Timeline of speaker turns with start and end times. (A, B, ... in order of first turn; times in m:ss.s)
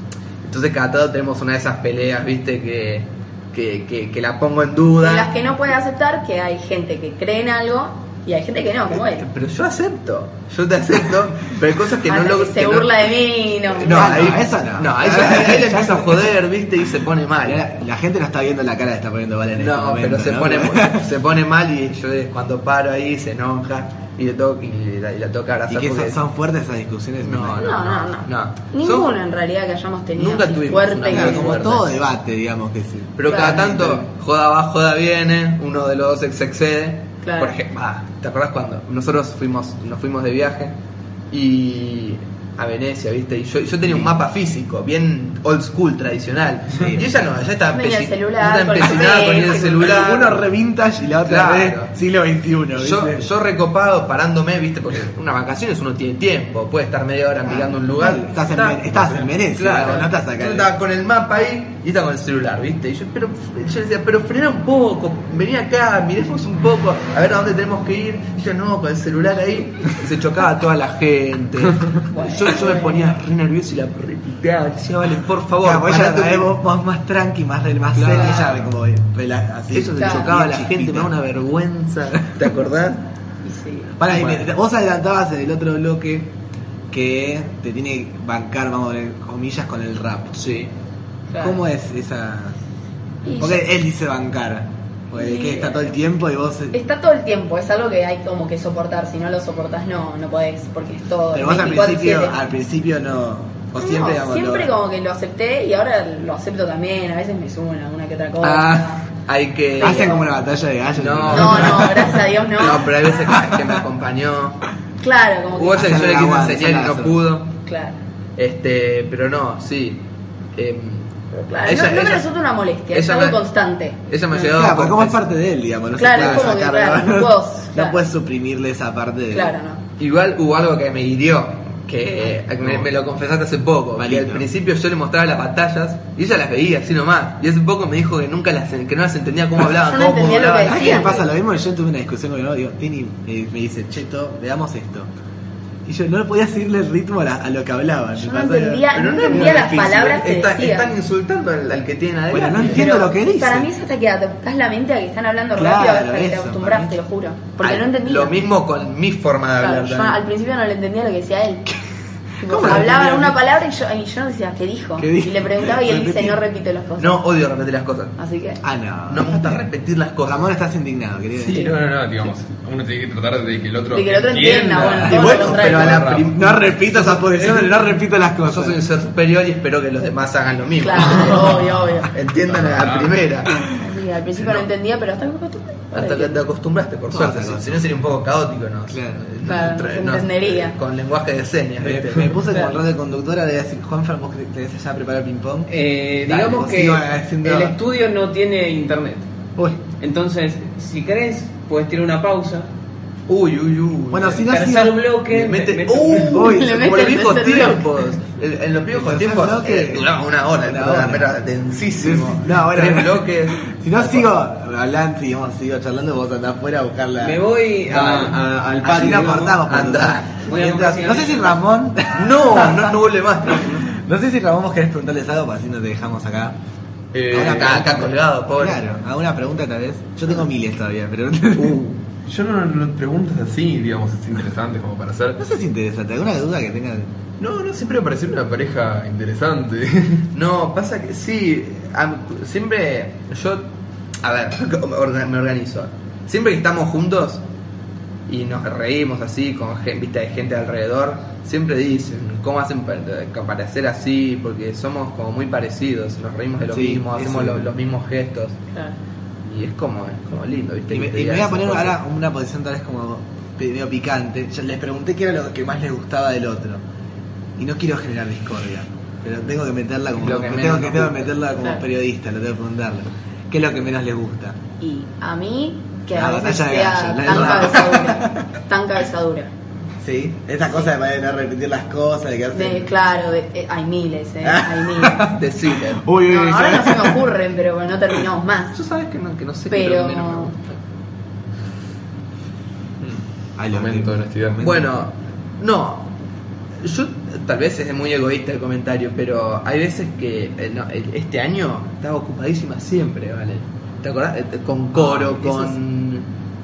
0:00.4-0:05.3 A
0:05.0-0:09.3 B
0:08.9-0:13.1 A
0:12.1-0:14.2 B
0:13.7-0:17.6 A
0:13.8-0:16.3 C
0:17.4-0:21.1 C
0:19.6-0:26.2 A
0:25.7-0:27.8 C
0:27.2-0:29.1 A
0:27.6-0:31.7 B
0:30.1-0:31.9 A
0:31.1-0:34.0 C
0:33.2-0:40.8 A
0:33.3-0:33.6 B
0:37.2-0:37.6 B
0:41.3-0:50.4 A
0:43.8-0:44.1 C
0:46.7-0:47.1 C
0:47.7-0:50.0 B
0:49.1-0:53.2 C
0:51.2-0:51.9 A
0:52.8-1:16.5 A
0:57.4-1:00.7 C
1:12.1-1:13.1 B
1:15.6-1:21.1 C
1:17.9-1:18.7 A
1:18.1-1:18.4 B
1:19.7-1:23.0 A
1:20.0-1:20.3 B
1:23.4-1:23.9 B
1:24.0-1:26.3 C
1:24.0-1:24.5 A
1:26.9-1:30.4 C
1:30.3-1:30.7 A
1:31.3-1:31.6 B
1:31.4-1:32.6 C
1:33.2-1:33.6 B
1:33.3-1:36.8 C
1:35.1-1:35.9 B
1:36.7-1:42.4 B
1:41.3-1:44.7 C
1:43.8-1:49.0 B
1:48.4-1:49.0 C
1:49.2-1:50.2 A
1:49.8-1:50.3 B
1:49.8-1:52.3 C
1:50.9-1:54.6 A
1:51.3-1:52.9 B
1:53.1-1:53.8 C
1:55.0-1:55.9 B
1:55.5-1:57.5 A
1:55.7-1:57.2 C
1:57.6-1:58.0 B
1:58.4-2:00.0 A
2:00.5-2:02.3 A
2:01.4-2:04.0 B
2:02.9-2:03.4 A
2:04.1-2:05.2 A
2:04.3-2:09.6 C
2:06.0-2:08.0 B
2:06.1-2:06.5 A
2:09.3-2:09.8 B
2:10.0-2:21.2 A
2:14.0-2:14.5 C
2:19.8-2:21.1 B
2:20.6-2:25.1 C
2:25.8-2:29.9 C
2:28.1-2:30.9 B
2:28.9-2:32.9 A
2:32.3-2:33.7 C
2:32.7-2:38.4 B
2:35.6-2:36.9 C
2:37.6-2:40.2 A
2:39.6-2:41.7 B
2:42.4-2:47.2 B
2:42.4-2:43.4 C
2:45.0-2:46.4 C
2:47.0-2:48.1 A
2:48.2-2:48.6 B
2:48.6-2:49.7 C
2:49.1-2:50.4 A
2:50.2-2:51.7 C
2:51.4-2:56.3 D
2:53.9-2:56.0 B
2:55.0-2:57.8 A
2:55.1-2:58.8 C
2:58.4-3:03.6 A
3:00.8-3:02.1 B
3:02.4-3:03.2 D
3:03.7-3:06.4 B
3:05.9-3:12.4 A
3:07.1-3:07.8 C
3:08.9-3:09.3 C
3:09.4-3:10.8 B
3:11.8-3:15.7 C
3:12.5-3:12.8 E
3:15.7-3:19.3 E
3:16.2-3:17.8 C
3:20.0-3:22.7 E
3:23.3-3:24.4 A
3:24.1-3:25.0 C
3:24.4-3:26.2 E
3:25.3-3:34.3 A
3:26.1-3:27.9 B
3:26.2-3:27.1 C
3:28.9-3:31.4 C
3:32.0-3:43.0 C
3:37.2-3:39.5 E
3:38.8-3:40.4 A
3:40.4-3:41.6 E
3:42.1-3:43.9 A
3:43.6-3:46.6 C
3:47.1-3:48.0 D
3:47.3-3:51.8 C
3:47.3-3:48.8 A
3:51.5-3:52.0 A
3:52.2-3:55.4 D
3:55.4-3:57.1 C
3:57.4-4:00.3 D
4:00.3-4:03.6 A
4:04.2-4:07.4 A
4:08.3-4:18.6 A
4:16.7-4:17.7 C
4:18.7-4:19.0 B
4:19.4-4:22.0 A
4:20.9-4:26.8 C
4:27.6-4:34.6 C
4:34.8-4:39.5 B
4:36.1-4:38.4 C
4:40.0-4:42.9 C
4:42.5-4:45.3 B
4:44.4-4:47.2 C
4:45.2-4:46.0 A
4:46.3-4:48.8 B
4:48.7-4:50.8 A
4:49.7-4:50.6 B
4:53.1-4:54.9 C
4:53.7-4:54.8 D
4:54.6-4:56.1 A
4:56.8-5:06.3 A
5:04.9-5:05.7 C